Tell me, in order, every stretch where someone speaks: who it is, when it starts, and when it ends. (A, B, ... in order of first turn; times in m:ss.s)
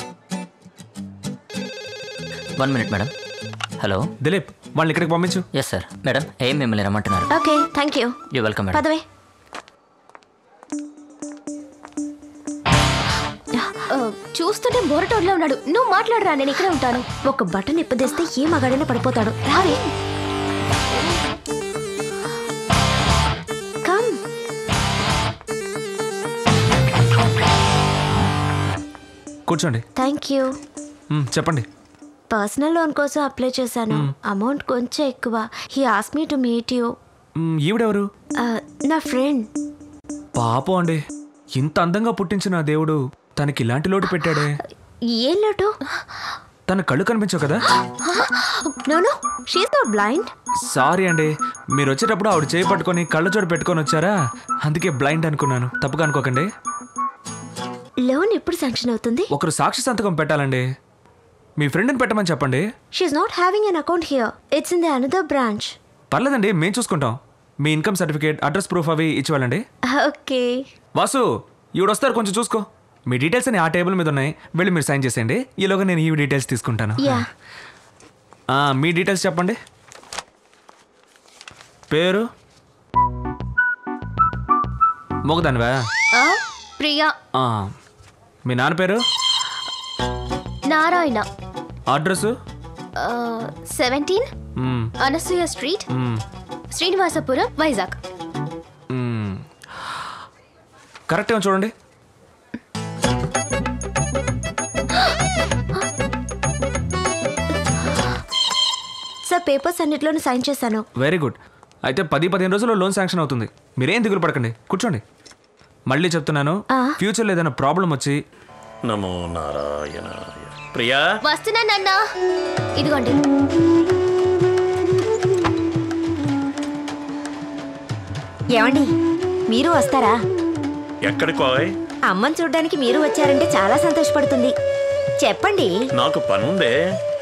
0:02.6-0:03.1 A
0:03.8-0:04.1 A
0:04.2-0:05.4 B
0:05.5-0:07.3 A
0:07.3-0:08.2 C
0:08.3-0:08.8 A
0:08.7-0:09.0 C
0:13.9-0:17.0 D
0:17.3-0:19.8 C
0:19.5-0:19.8 D
0:23.8-0:24.2 C
0:29.5-0:29.8 B
0:30.0-0:30.5 C
0:31.1-0:31.6 B
0:32.3-0:36.9 C
0:37.4-0:38.1 B
0:38.4-0:39.5 C
0:40.4-0:41.0 B
0:41.6-0:44.6 B
0:45.1-0:45.7 C
0:46.7-0:47.6 B
0:47.9-0:48.7 D
0:48.9-0:50.3 C
0:50.7-0:56.5 B
0:58.0-0:59.3 C
0:59.3-1:00.6 B
1:01.6-1:02.6 B
1:02.9-1:05.7 C
1:06.1-1:09.6 B
1:09.9-1:10.7 C
1:11.0-1:11.2 B
1:11.8-1:17.2 B
1:17.0-1:17.2 C
1:18.5-1:19.6 B
1:21.9-1:22.3 B
1:25.2-1:25.8 B
1:26.1-1:27.1 D
1:27.3-1:27.7 B
1:28.4-1:29.0 B
1:30.7-1:31.2 D
1:31.9-1:32.3 B
1:33.0-1:34.3 D
1:34.6-1:34.9 B
1:35.0-1:35.8 D
1:35.9-1:36.2 B
1:36.7-1:38.0 D
1:38.9-1:39.4 B
1:41.1-1:41.7 B
1:49.3-1:50.8 C
1:51.0-1:51.4 B
1:51.9-1:55.0 B
1:55.9-1:58.2 B
1:58.8-2:01.0 E
2:01.2-2:02.0 D
2:02.8-2:03.2 D
2:08.6-2:08.9 C
2:09.5-2:10.2 C
2:11.0-2:11.7 E
2:12.1-2:14.5 C
2:15.2-2:15.7 C
2:16.0-2:16.7 E